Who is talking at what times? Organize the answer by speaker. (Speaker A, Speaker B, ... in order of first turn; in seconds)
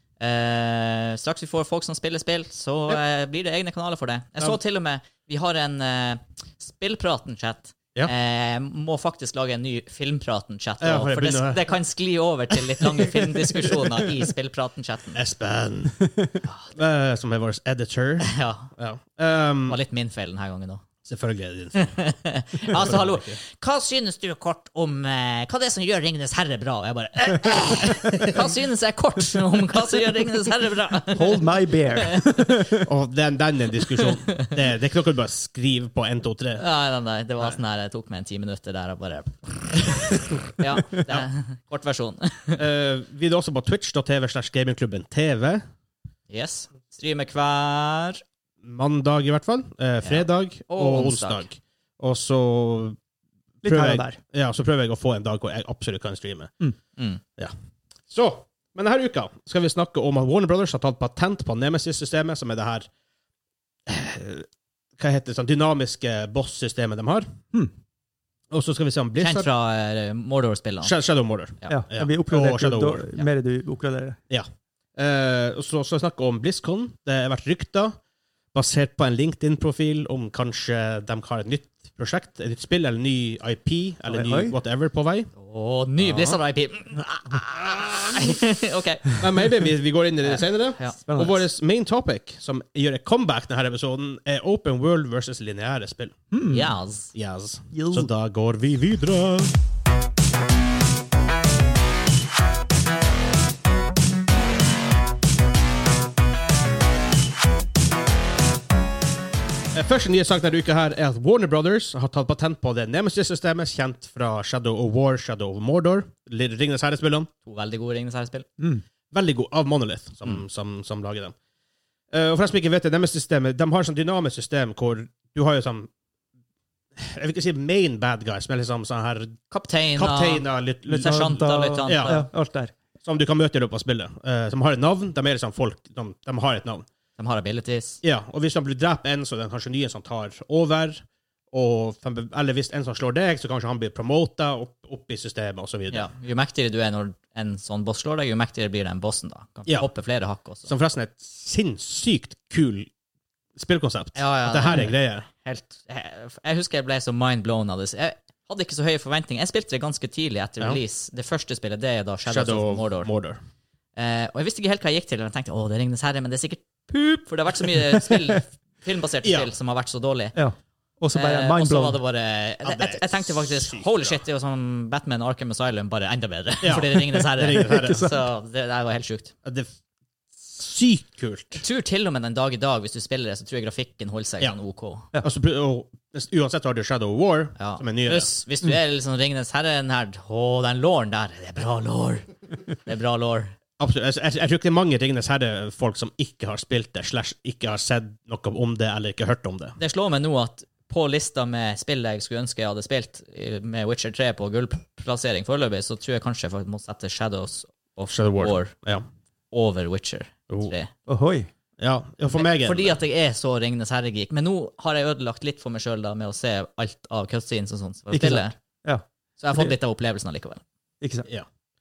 Speaker A: 0.2-15.2, 16.4-16.7, 18.2-18.7, 19.7-20.8, 21.8-31.4, 32.0-32.3, 36.6-42.6, 46.3-48.2, 50.0-51.4, 69.2-70.9, 85.3-89.2, 90.2-91.0, 96.5-97.1, 117.4-118.5, 129.5-132.3, 137.2-138.0, 145.9-150.7, 154.1-163.1, 163.9-170.3, 171.1-179.3, 181.6-185.1, 187.6-193.5, 199.8-208.7, 209.5-210.9, 212.3-218.6, 219.4-220.6
Speaker B: 10.8-11.7, 12.5-13.8, 15.1-16.0, 16.7-19.8, 21.0-21.9, 22.7-23.4, 32.8-36.6, 42.6-45.6, 48.6-53.0, 53.6-56.5, 58.1-62.9, 63.9-64.5, 65.0-67.3, 68.5-69.5, 70.8-73.1, 74.3-78.0, 78.5-85.3, 86.0-86.4, 89.2-96.1, 97.1-99.5, 109.7-117.3, 119.1-121.3, 122.1-125.9, 127.0-129.4, 130.0-132.2, 133.0-136.8, 138.0-146.1, 150.7-152.9, 153.6-155.3, 162.3-163.4, 172.6-174.2, 176.6-178.1, 180.5-181.6, 185.2-188.3, 193.8-199.8, 208.1-209.0, 211.8-213.0
Speaker C: 16.1-16.3, 31.1-32.9, 53.6-54.2, 71.7-74.2, 84.1-84.5, 91.1-91.4, 96.3-96.7, 97.7-98.1, 130.9-132.7, 170.3-172.0, 177.6-178.1, 211.1-211.5, 218.1-219.7, 221.0-221.3